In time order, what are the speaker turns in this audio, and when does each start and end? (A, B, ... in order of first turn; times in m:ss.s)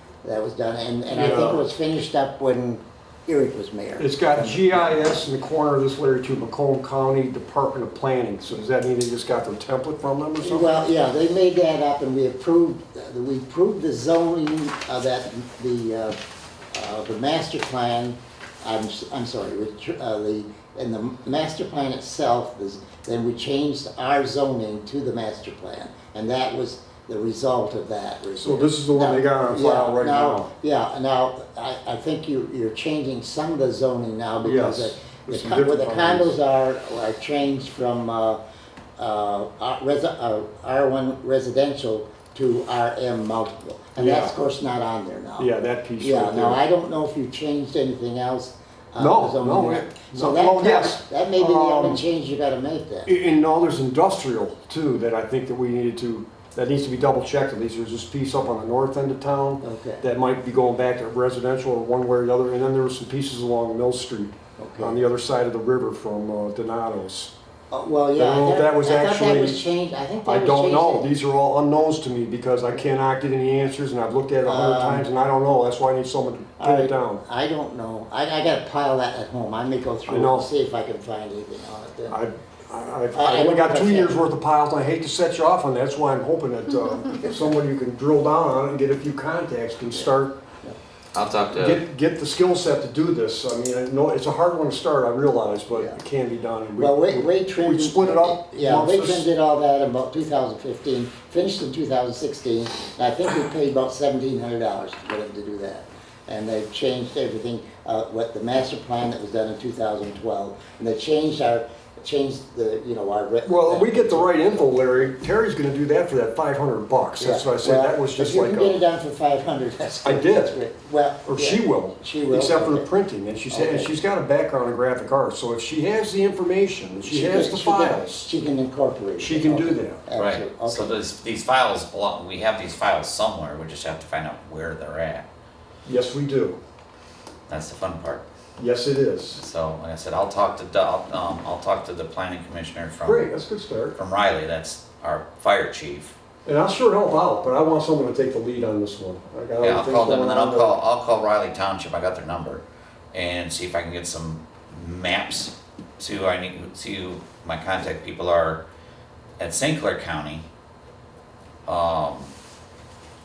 0:00.2-0:05.1 A
0:01.1-0:01.6 B
0:04.0-0:10.8 B
0:10.4-0:16.2 A
0:16.7-0:38.4 A
0:28.4-0:30.5 B
0:34.4-0:36.3 B
0:39.0-0:53.1 A
0:44.0-0:44.3 B
0:45.4-0:46.6 B
0:49.0-0:52.0 B
0:53.1-1:07.3 B
0:59.6-1:00.0 A
1:04.6-1:05.0 A
1:07.7-1:11.1 A
1:08.2-1:09.6 B
1:10.2-1:17.2 B
1:14.4-1:15.1 A
1:16.6-1:22.2 A
1:20.1-1:20.5 B
1:22.1-1:30.4 B
1:23.1-1:24.2 A
1:31.1-1:31.8 C
1:31.5-1:39.3 B
1:35.7-1:36.0 A
1:36.8-1:54.7 A
1:53.4-1:58.8 B
1:57.2-2:02.9 A
2:00.0-2:00.6 B
2:01.3-2:08.3 B
2:03.5-2:04.0 A
2:07.0-2:11.0 A
2:09.2-2:10.0 B
2:10.2-2:15.3 C
2:15.9-2:16.6 B
2:17.5-2:18.2 C
2:18.6-2:19.4 B
2:19.4-2:23.3 C
2:23.0-2:24.0 B
2:24.0-2:26.1 C
2:26.4-2:30.8 B
2:29.6-2:38.6 C
2:39.4-2:40.4 C
2:41.7-2:42.3 C